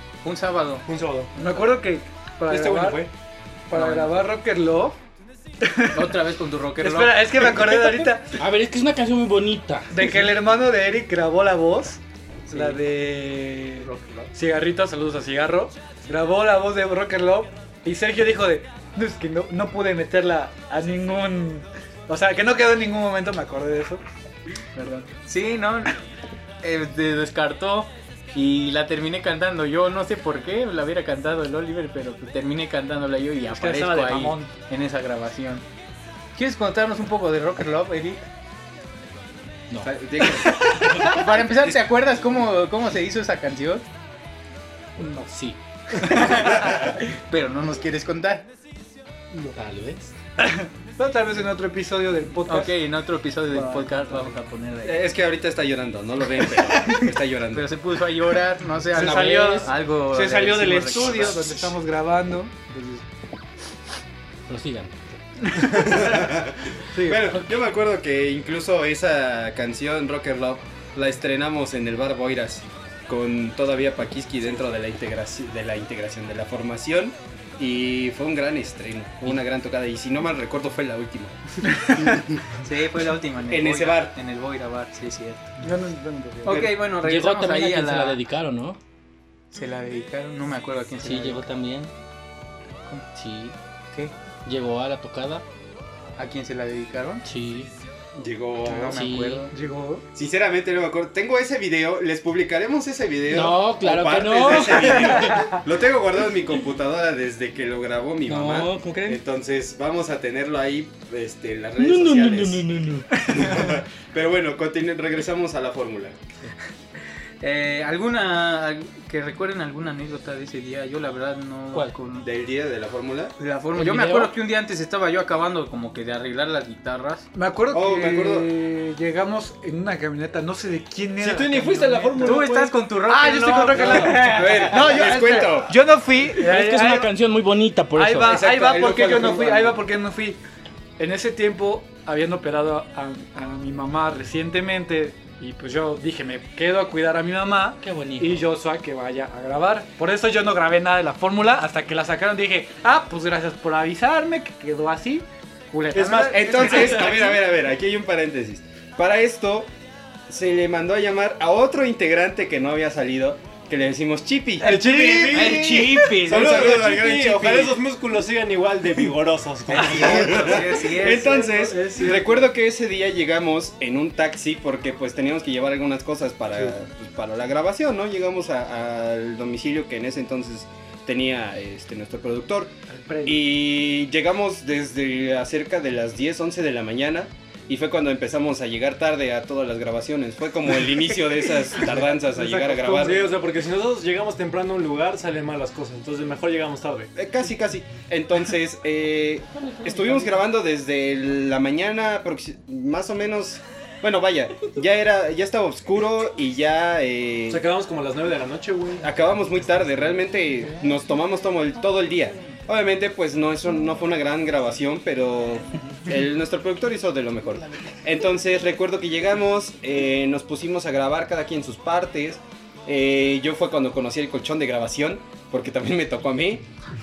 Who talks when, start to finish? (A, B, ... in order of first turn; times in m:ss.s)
0:00.2-0:00.9 A
0:00.9-0:01.3 B
0:01.4-0:03.1 C
0:02.5-0:03.1 B
0:03.7-0:05.0 C
0:03.7-0:04.2 A
0:05.6-0:06.2 C
0:05.9-0:07.4 A
0:06.8-0:08.4 C
0:08.4-0:10.1 D
0:09.9-0:12.0 C
0:12.5-0:12.8 A
0:12.5-0:24.0 C
0:24.8-0:25.1 C
0:25.1-0:26.0 A
0:26.6-0:35.6 A
0:33.5-0:34.5 C
0:36.4-0:38.2 A
0:39.8-0:41.1 E
0:40.9-0:43.9 A
0:45.0-0:45.3 C
0:45.3-0:46.2 D
0:45.9-0:48.5 A
0:49.5-0:50.1 D
0:50.4-0:52.7 C
0:52.5-0:55.0 A
0:53.5-0:54.3 C
0:54.8-0:57.7 E
0:57.5-1:01.4 A
0:58.9-1:03.0 C
0:59.0-0:59.4 E
0:59.0-0:59.6 D
1:00.9-1:01.6 E
1:04.5-1:05.0 D
1:05.5-1:07.3 C
1:05.7-1:22.4 E
1:22.6-1:25.5 A
1:23.5-1:24.1 E
1:25.6-1:26.7 C
1:26.4-1:28.2 A
1:26.5-1:28.8 D
1:29.5-1:31.5 A
1:31.0-1:31.9 D
1:32.9-1:33.1 A
1:33.2-1:33.6 D
1:34.4-1:35.4 D
1:36.2-1:37.3 A
1:37.2-1:37.7 D
1:38.2-1:39.0 E
1:38.6-1:39.5 A
1:38.9-1:39.5 D
1:39.5-1:40.0 C
1:40.1-1:56.2 E
1:43.3-1:45.5 D
1:48.3-1:49.2 D
1:51.8-1:53.4 D
1:57.4-2:02.2 A
2:02.2-2:03.4 E
2:03.4-2:07.3 A
2:03.7-2:04.4 D
2:07.4-2:12.5 C
2:07.7-2:08.5 E
2:11.2-2:12.8 B
2:12.2-2:14.7 A
2:13.1-2:17.1 C
2:13.7-2:14.1 B
2:13.9-2:15.8 E
2:16.4-2:18.4 D
2:18.0-2:20.4 C
2:18.2-2:19.8 E
2:21.0-2:37.4 C
2:27.8-2:28.4 D
2:35.9-2:37.0 B
2:36.2-2:39.7 E
2:40.3-2:47.8 E
2:44.6-2:50.6 B
2:45.3-2:46.6 A
2:45.6-2:46.0 D
2:49.7-2:51.5 A
2:49.8-3:13.3 E
2:50.2-2:52.3 C
3:02.9-3:03.4 C
3:12.4-3:13.2 C
3:12.5-3:17.1 B
3:17.2-3:27.6 E
3:27.5-3:29.1 B
3:29.0-3:46.7 E